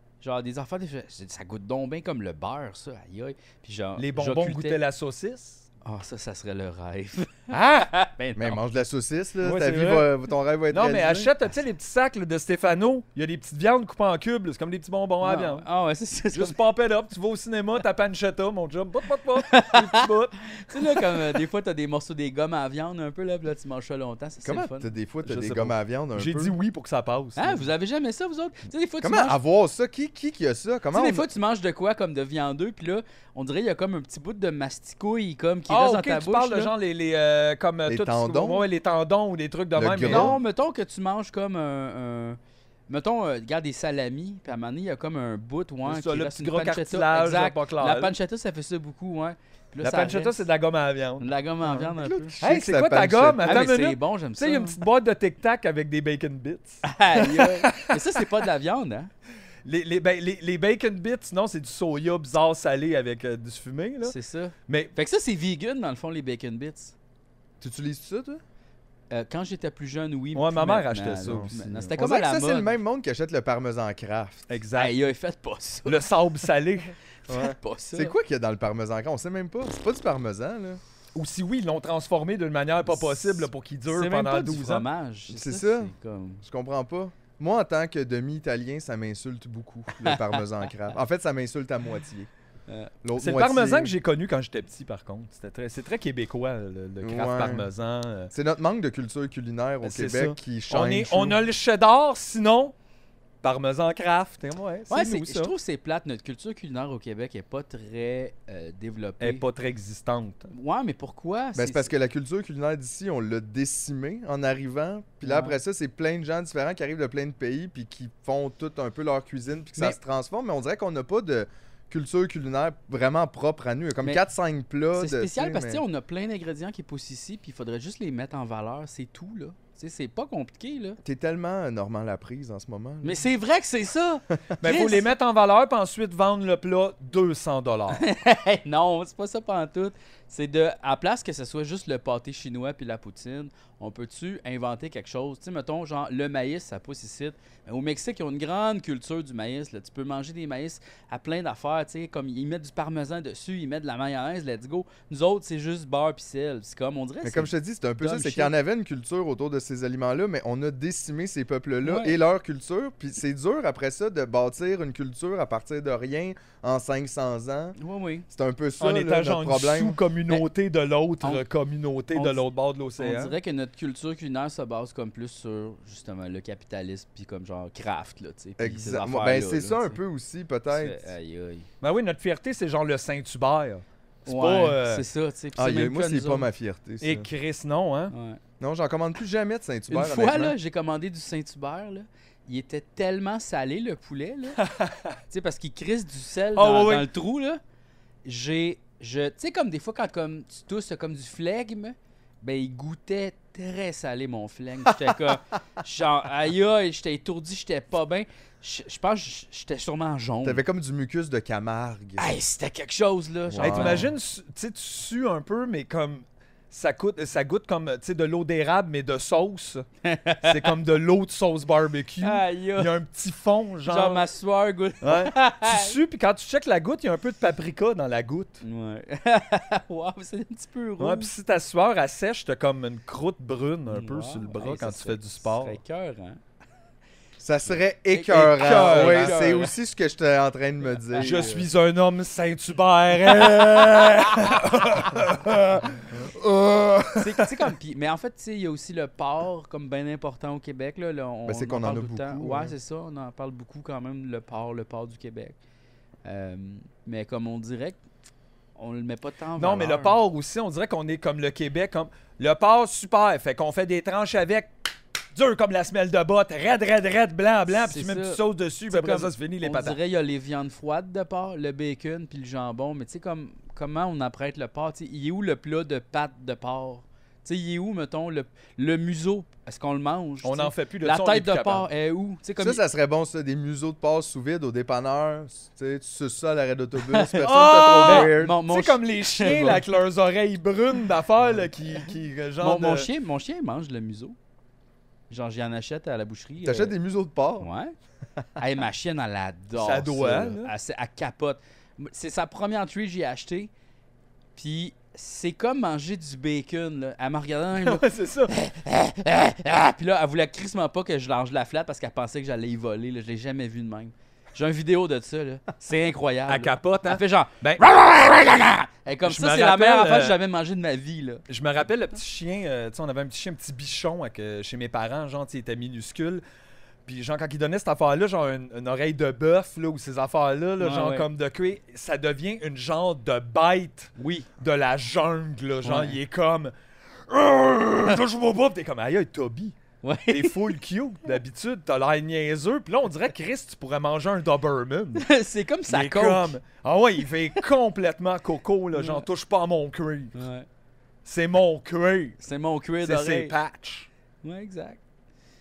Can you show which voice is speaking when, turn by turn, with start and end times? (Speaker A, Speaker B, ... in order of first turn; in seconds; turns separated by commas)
Speaker A: 0.2-4.8, Speaker B: 4.0-5.7, Speaker A: 5.8-8.6, Speaker B: 7.5-7.9, Speaker C: 8.4-11.3, Speaker B: 9.4-10.1, Speaker B: 10.7-15.7, Speaker A: 15.2-16.6, Speaker B: 16.3-21.2, Speaker A: 19.5-20.1, Speaker A: 20.6-24.9, Speaker C: 24.4-26.6, Speaker B: 25.2-27.7, Speaker A: 27.4-29.4, Speaker C: 29.0-31.2, Speaker A: 30.9-36.7, Speaker B: 35.7-40.4, Speaker C: 37.9-38.7, Speaker C: 39.8-40.4, Speaker A: 40.0-50.5, Speaker B: 45.9-48.1, Speaker B: 49.8-51.3, Speaker A: 51.2-52.3, Speaker C: 51.7-53.5, Speaker B: 52.4-58.2, Speaker A: 53.4-54.8, Speaker A: 56.8-59.1, Speaker B: 59.6-64.2, Speaker A: 64.0-67.0, Speaker B: 64.7-64.9, Speaker C: 67.6-68.4, Speaker A: 69.1-72.7, Speaker B: 70.3-71.9, Speaker C: 71.3-74.5, Speaker B: 74.5-75.0, Speaker A: 74.8-76.1, Speaker B: 75.9-77.5, Speaker A: 77.3-78.1, Speaker C: 77.3-80.8, Speaker B: 81.2-84.9, Speaker A: 83.0-86.4, Speaker C: 85.3-92.3, Speaker A: 90.0-90.4, Speaker C: 93.0-93.9, Speaker B: 93.2-98.3, Speaker C: 97.0-97.7, Speaker C: 98.3-101.4, Speaker B: 99.8-102.7, Speaker B: 103.4-105.5, Speaker A: 104.9-109.4, Speaker B: 109.2-110.5, Speaker A: 110.5-111.9, Speaker C: 111.5-125.8, Speaker A: 115.2-115.6, Speaker A: 124.9-131.0, Speaker C: 131.0-133.2, Speaker A: 133.0-135.1, Speaker B: 134.6-138.0, Speaker A: 137.9-158.5, Speaker C: 157.2-167.8, Speaker A: 161.8-162.2, Speaker A: 167.8-168.3, Speaker C: 168.3-170.0, Speaker B: 168.8-173.4, Speaker A: 172.1-172.4, Speaker A: 173.0-180.0, Speaker C: 178.6-181.1, Speaker A: 180.7-181.7, Speaker B: 181.8-185.0, Speaker A: 184.3-186.5, Speaker C: 185.6-187.3, Speaker B: 187.0-188.1, Speaker A: 188.1-188.4, Speaker C: 188.6-190.6, Speaker A: 189.9-194.6, Speaker B: 194.6-195.2, Speaker A: 195.3-197.6, Speaker B: 196.6-197.1, Speaker A: 198.2-210.6, Speaker C: 210.4-212.2, Speaker A: 212.2-214.1, Speaker C: 213.5-214.1, Speaker B: 213.6-219.8, Speaker A: 220.0-220.7, Speaker B: 220.4-224.2, Speaker A: 222.2-222.9, Speaker A: 223.9-226.0, Speaker B: 225.0-228.6, Speaker A: 228.6-231.3, Speaker B: 231.0-235.8, Speaker A: 233.9-236.4, Speaker C: 237.4-241.6, Speaker A: 238.1-239.7, Speaker B: 238.3-239.4, Speaker A: 241.1-241.7, Speaker B: 241.2-246.1, Speaker C: 246.1-247.4, Speaker A: 247.2-255.6, Speaker C: 251.4-252.7, Speaker A: 256.2-258.0, Speaker A: 258.8-260.2, Speaker B: 259.6-264.7, Speaker B: 265.3-270.0, Speaker A: 267.7-282.8, Speaker B: 280.4-281.9, Speaker C: 282.6-288.6, Speaker A: 287.1-289.8, Speaker B: 287.4-293.1, Speaker A: 292.6-294.4, Speaker A: 295.3-296.9, Speaker C: 296.6-297.7, Speaker A: 297.6-297.9, Speaker A: 298.6-303.7, Speaker B: 299.8-300.7, Speaker A: 304.6-321.4, Speaker B: 307.8-308.5, Speaker B: 316.5-317.9, Speaker B: 319.3-320.4, Speaker B: 321.5-326.4, Speaker B: 327.1-336.7, Speaker A: 330.8-331.3, Speaker A: 334.2-334.5, Speaker A: 335.8-336.2, Speaker B: 337.3-339.8, Speaker A: 340.0-340.6, Speaker B: 340.3-345.3, Speaker A: 345.2-346.5, Speaker B: 345.9-350.3, Speaker A: 348.9-349.2, Speaker A: 350.3-350.7, Speaker B: 351.2-352.4, Speaker A: 352.4-353.5, Speaker B: 353.0-354.1, Speaker A: 354.4-355.0